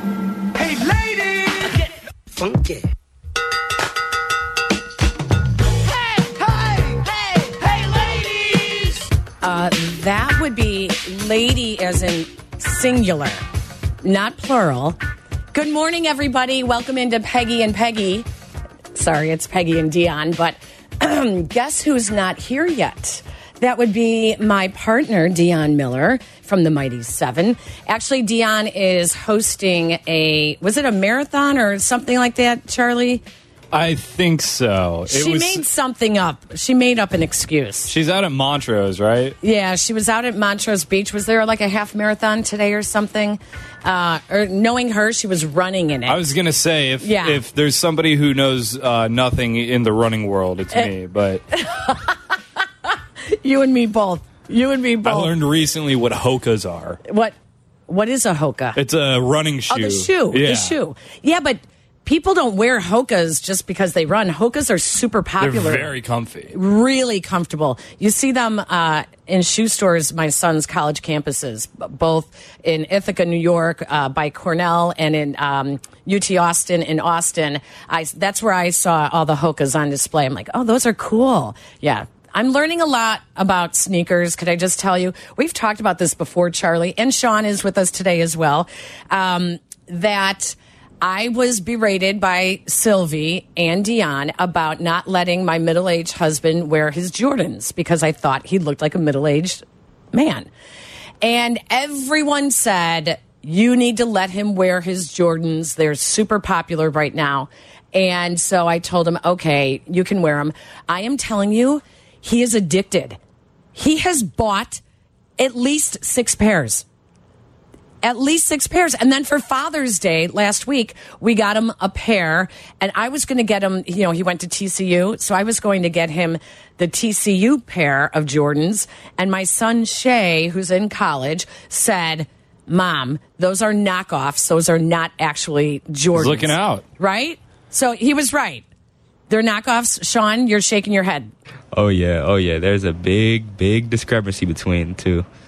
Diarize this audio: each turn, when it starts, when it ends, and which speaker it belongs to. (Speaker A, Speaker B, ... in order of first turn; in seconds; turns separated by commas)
Speaker A: 0.5-2.9, Speaker A: 5.7-9.1, Speaker B: 9.4-13.4, Speaker B: 14.0-15.0, Speaker B: 15.5-18.3, Speaker B: 18.9-33.2, Speaker C: 33.7-35.6, Speaker B: 35.1-37.9, Speaker C: 37.9-39.4, Speaker B: 39.4-46.2, Speaker C: 46.1-51.4, Speaker B: 47.0-47.4, Speaker B: 51.5-55.3, Speaker C: 55.0-57.0, Speaker B: 57.0-57.3, Speaker B: 57.9-58.8, Speaker C: 58.8-60.8, Speaker B: 59.7-66.0, Speaker C: 65.4-66.5, Speaker B: 66.5-100.5, Speaker B: 101.2-113.2, Speaker B: 113.7-114.8, Speaker B: 115.4-116.8, Speaker B: 118.0-138.6, Speaker C: 136.1-136.8, Speaker B: 139.3-141.3, Speaker D: 141.7-145.2